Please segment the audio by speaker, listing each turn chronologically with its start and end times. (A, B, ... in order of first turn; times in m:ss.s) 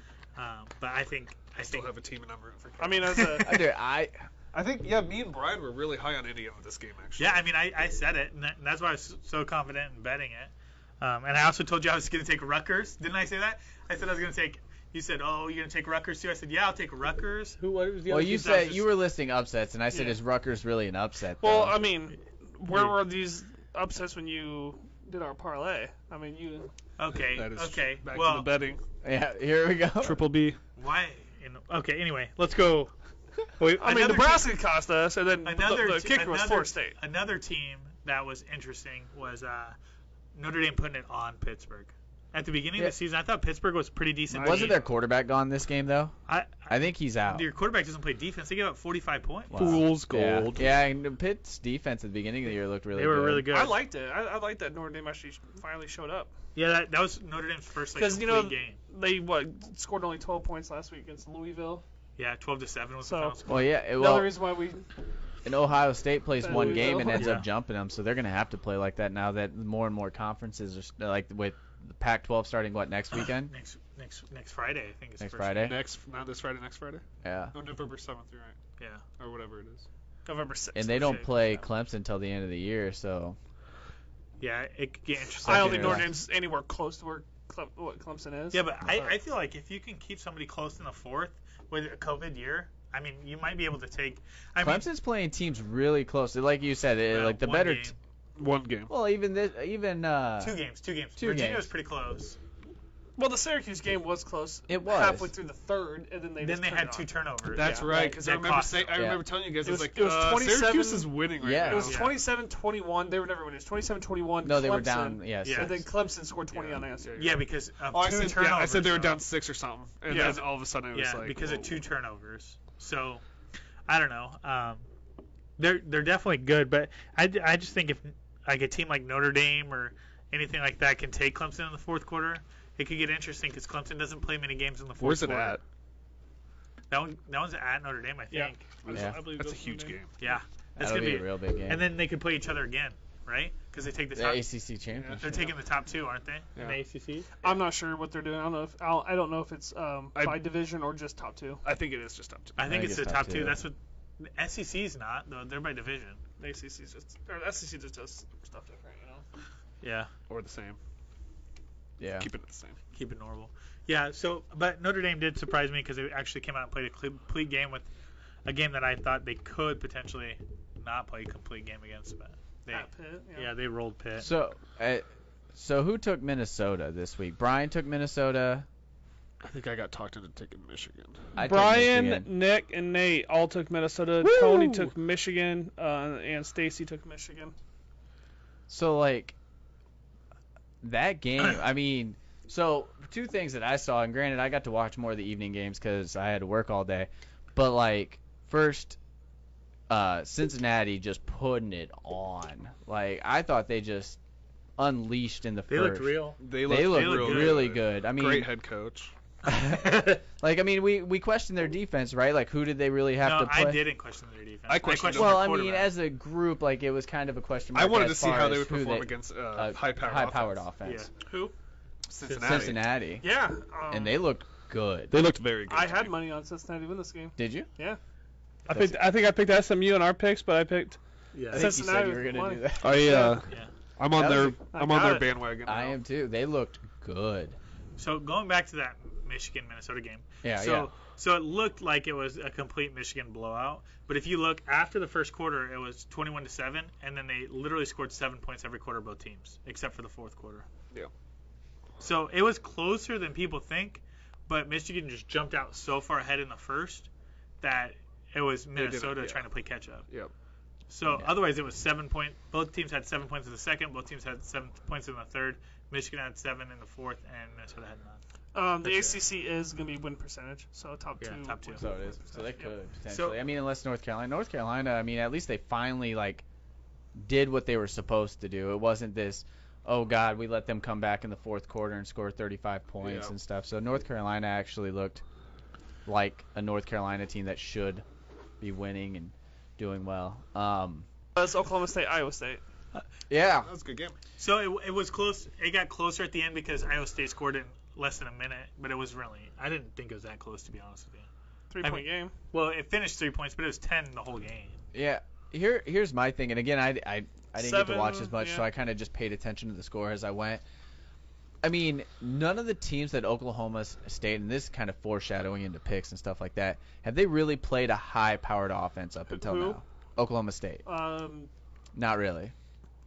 0:00.4-0:01.9 A
0:01.6-0:03.3 B
0:02.8-0:03.6 C
0:03.1-0:03.5 A
0:03.4-0:04.2 D
0:04.5-0:07.4 B
0:07.2-0:18.9 A
0:18.1-0:21.8 D
0:19.9-0:20.2 C
0:21.4-0:26.7 C
0:22.7-0:23.0 B
0:27.0-0:28.5 A
0:27.3-0:28.8 B
0:29.0-0:30.2 D
0:30.0-0:30.6 B
0:30.8-0:32.9 A
0:33.6-0:34.6 A
0:33.8-0:37.0 C
0:35.4-0:39.8 A
0:40.3-0:44.8 A
0:44.3-0:44.8 B
0:44.4-0:46.1 D
0:46.3-0:49.8 A
0:46.7-0:47.5 D
0:49.5-0:53.5 D
0:49.5-0:50.7 B
0:52.9-0:53.8 A
0:53.5-0:56.3 C
0:56.6-0:58.8 A
0:57.9-1:01.8 C
1:02.2-1:03.7 A
1:03.0-1:04.8 C
1:03.4-1:04.4 D
1:05.4-1:13.5 D
1:06.4-1:07.4 C
1:07.1-1:07.4 A
1:13.1-1:15.7 A
1:15.2-1:15.8 D
1:15.6-1:18.6 B
1:17.2-1:17.5 D
1:19.2-1:19.8 B
1:20.2-1:21.6 C
1:20.7-1:23.4 D
1:24.4-1:26.1 A
1:25.4-1:26.1 D
1:25.4-1:29.2 C
1:28.5-1:34.8 A
1:34.6-1:37.9 D
1:37.1-1:37.9 A
1:38.4-1:38.9 B
1:38.9-1:40.6 D
1:40.4-1:42.4 A
1:41.2-1:41.7 D
1:43.2-1:48.2 C
1:44.7-1:45.3 D
1:46.4-1:49.0 A
1:47.5-1:52.0 B
1:48.9-1:49.3 D
1:49.6-1:57.2 C
1:51.4-1:52.0 D
1:51.8-1:52.2 A
1:54.4-1:55.8 D
1:55.4-1:55.8 A
1:56.5-2:01.8 B
1:57.2-1:59.2 A
2:00.1-2:00.4 C
2:00.1-2:03.2 A
2:03.9-2:04.8 A
2:05.6-2:15.6 A
2:15.0-2:15.6 B
2:16.9-2:18.7 A
2:18.3-2:20.0 C
2:18.8-2:20.1 B
2:20.2-2:24.4 A
2:20.8-2:21.8 D
2:24.1-2:25.4 D
2:25.0-2:25.5 B
2:25.2-2:27.6 A
2:27.4-2:31.6 C
2:30.1-2:30.4 B
2:31.6-2:32.8 B
2:32.6-2:36.2 A
2:32.6-2:33.6 D
2:36.4-2:39.2 C
2:39.8-2:40.1 A
2:40.3-2:40.8 B
2:42.0-2:42.3 D
2:42.2-2:42.8 B
2:42.9-2:47.9 A
2:48.4-2:54.3 A
2:52.7-2:53.5 C
2:54.2-2:58.6 D
2:59.4-3:01.3 B
3:01.3-3:02.3 D
3:01.4-3:07.5 C
3:04.2-3:04.9 B
3:08.7-3:09.3 D
3:10.8-3:19.0 D
3:19.9-3:24.2 D
3:24.8-3:28.5 D
3:25.7-3:27.7 A
3:26.4-3:29.1 B
3:29.4-3:33.8 D
3:33.2-3:35.9 A
3:34.7-3:35.6 B
3:35.1-3:41.1 D
3:37.7-3:40.6 B
3:40.8-3:41.1 A
3:41.2-3:41.5 C
3:42.1-3:42.8 B
3:42.2-3:42.8 A
3:42.4-3:43.2 D
3:43.2-3:44.2 C
3:43.9-3:45.2 D
3:45.1-3:46.2 B
3:45.7-3:48.0 C
3:47.4-3:47.7 D
3:48.6-3:49.0 A
3:48.7-3:51.0 C
3:51.3-3:51.7 A
3:51.5-3:53.4 D
3:51.5-3:53.4 C
3:52.8-3:56.0 B
3:54.1-3:54.6 D
3:54.7-3:55.3 C
3:55.6-3:57.6 D
3:58.0-4:10.7 A
4:00.4-4:00.9 D
4:12.0-4:17.1 A
4:17.6-4:20.1 A
4:18.8-4:19.4 B
4:20.9-4:28.2 A
4:28.5-4:32.7 C
4:28.9-4:29.1 A
4:31.2-4:31.9 A
4:31.8-4:36.4 D
4:33.1-4:33.4 A
4:37.2-4:45.2 D
4:43.0-4:43.3 B
4:46.0-4:48.0 D
4:48.6-4:51.1 D
4:51.4-4:52.6 C
4:53.3-4:53.7 D
4:53.6-4:54.2 B
4:54.4-5:01.3 A
5:01.7-5:02.3 C
5:01.8-5:04.8 A
5:04.9-5:10.6 D
5:07.6-5:08.7 C
5:11.6-5:20.8 D
5:19.3-5:19.8 C
5:20.8-5:21.5 C
5:21.9-5:22.5 D